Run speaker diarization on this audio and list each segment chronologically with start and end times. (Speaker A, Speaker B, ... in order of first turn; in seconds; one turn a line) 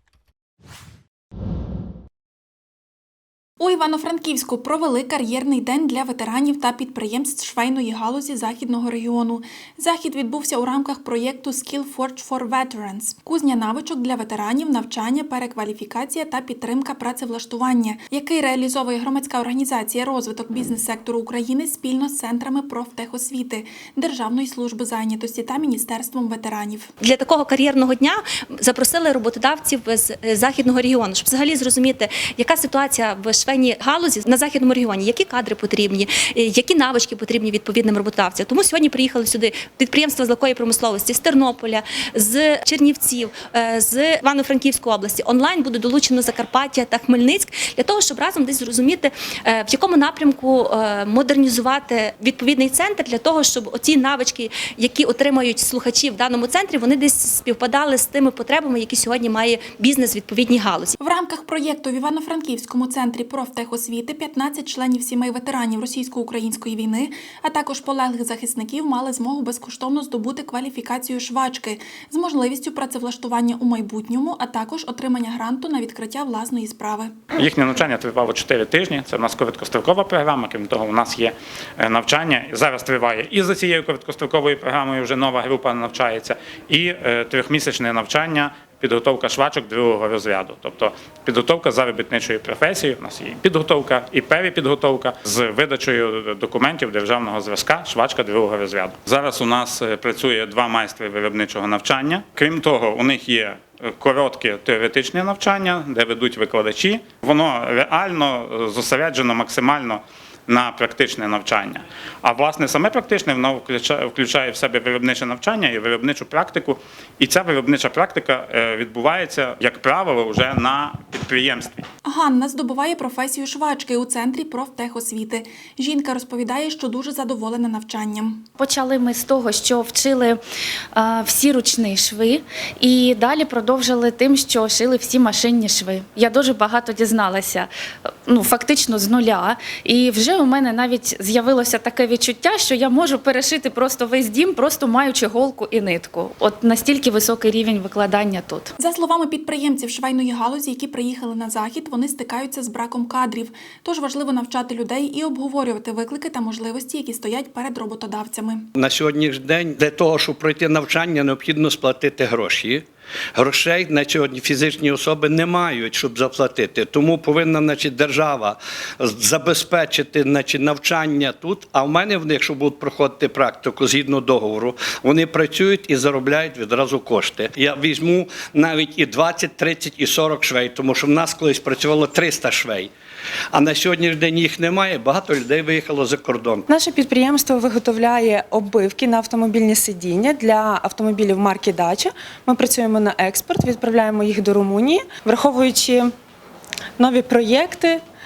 Speaker A: 3.6-26.9
Speaker B: 27.0-60.9
Speaker A: 61.0-77.2
Speaker C: 77.3-121.8
Speaker A: 122.0-128.4
Speaker D: 128.6-130.4
Speaker D: 130.9-137.7
Speaker D: 138.3-148.7
Speaker A: 148.8-158.7
Speaker E: 158.8-162.8
Speaker E: 163.3-182.9
Speaker E: 183.5-186.7
Speaker F: 186.7-196.1
Speaker F: 197.0-198.0